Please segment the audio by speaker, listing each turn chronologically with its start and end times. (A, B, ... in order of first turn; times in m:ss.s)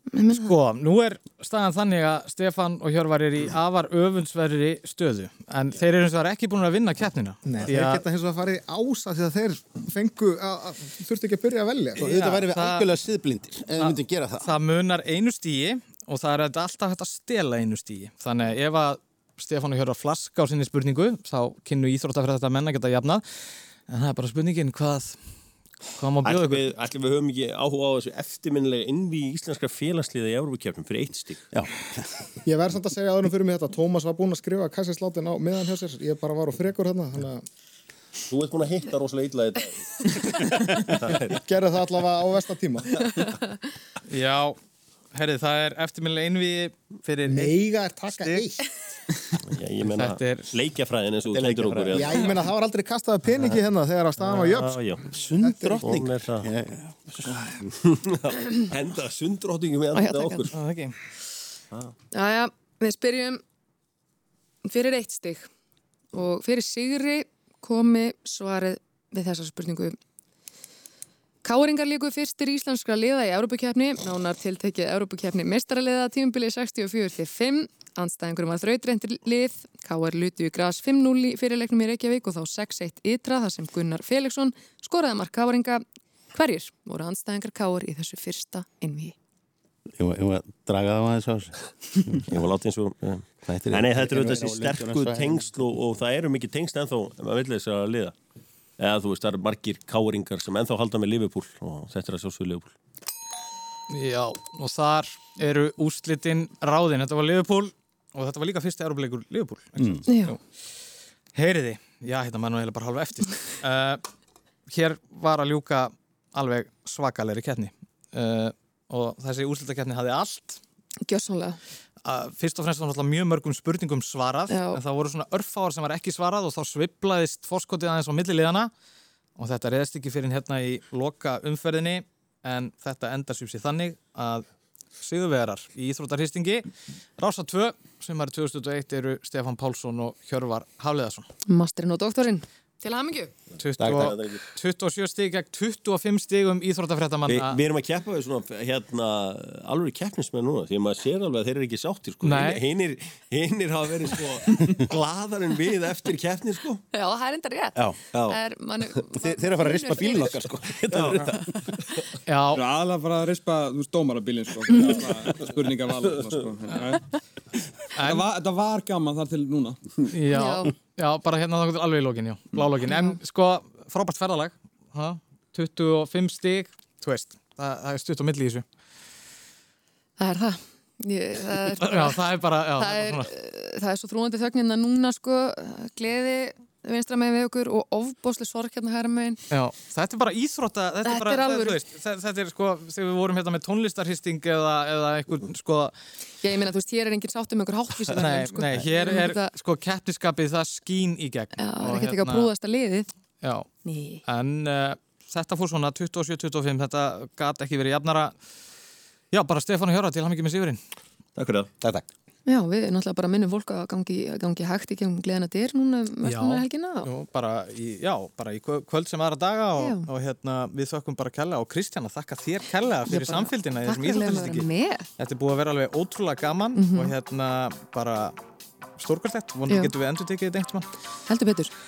0:00.1-0:00.5 A
0:00.3-0:08.0 B
0:07.4-0:12.1 C
0:12.0-0:14.6 D
0:12.0-0:12.9 B
0:13.8-0:25.2 B
0:26.0-0:26.6 B
0:26.2-0:31.5 E
0:31.5-0:32.3 D
0:32.4-0:37.4 C
0:38.3-0:41.4 E
0:41.3-0:43.0 C
0:44.1-0:44.6 B
0:45.1-0:47.6 B
0:47.3-0:48.6 C
0:48.1-0:48.4 B
0:49.4-0:52.2 E
0:50.0-0:50.5 B
0:51.3-0:52.3 D
0:52.0-0:55.9 C
0:54.2-0:55.0 E
0:55.1-0:57.5 D
0:55.8-0:56.5 E
0:57.8-1:00.5 E
0:59.9-1:00.5 A
1:00.5-1:01.0 B
1:02.1-1:03.4 A
1:04.6-1:05.5 A
1:06.1-1:10.0 A
1:11.4-1:29.2 A
1:30.0-1:32.2 D
1:32.3-1:38.1 E
1:33.4-1:35.8 D
1:38.8-1:42.7 E
1:43.9-1:50.4 B
1:49.8-1:50.0 D
1:50.1-1:50.4 A
1:51.3-1:54.0 B
1:54.7-2:00.6 B
2:01.0-2:01.6 A
2:02.0-2:08.7 B
2:04.5-2:04.8 A
2:09.4-2:14.5 B
2:15.0-2:21.3 B
2:21.5-2:23.3 A
2:23.6-2:27.6 B
2:23.8-2:24.2 D
2:23.8-2:24.4 E
2:27.3-2:36.8 E
2:32.2-2:32.6 B
2:36.9-2:40.5 A
2:38.1-2:38.4 E
2:39.1-2:41.4 D
2:40.9-2:41.4 E
2:42.3-2:42.6 B
2:42.5-2:47.1 F
2:48.0-2:48.2 B
2:48.0-2:49.8 F
2:50.1-2:58.6 B
2:50.3-2:50.7 A
2:52.8-2:53.2 A
3:00.2-3:02.2 A
3:01.8-3:03.3 B
3:02.8-3:09.4 A
3:09.5-3:15.9 B
3:11.0-3:11.8 A
3:16.4-3:19.4 A
3:18.2-3:22.5 B
3:21.6-3:23.1 A
3:23.4-3:23.7 B
3:23.8-3:24.2 A
3:24.3-3:28.4 B
3:29.3-3:30.8 B
3:31.4-3:31.7 E
3:31.8-3:32.1 D
3:32.5-3:37.1 A
3:36.2-3:44.7 B
3:39.8-3:40.1 A
3:43.1-3:45.1 A
3:45.2-3:48.4 B
3:46.8-3:47.2 A
3:49.0-3:50.9 B
3:51.3-3:51.7 A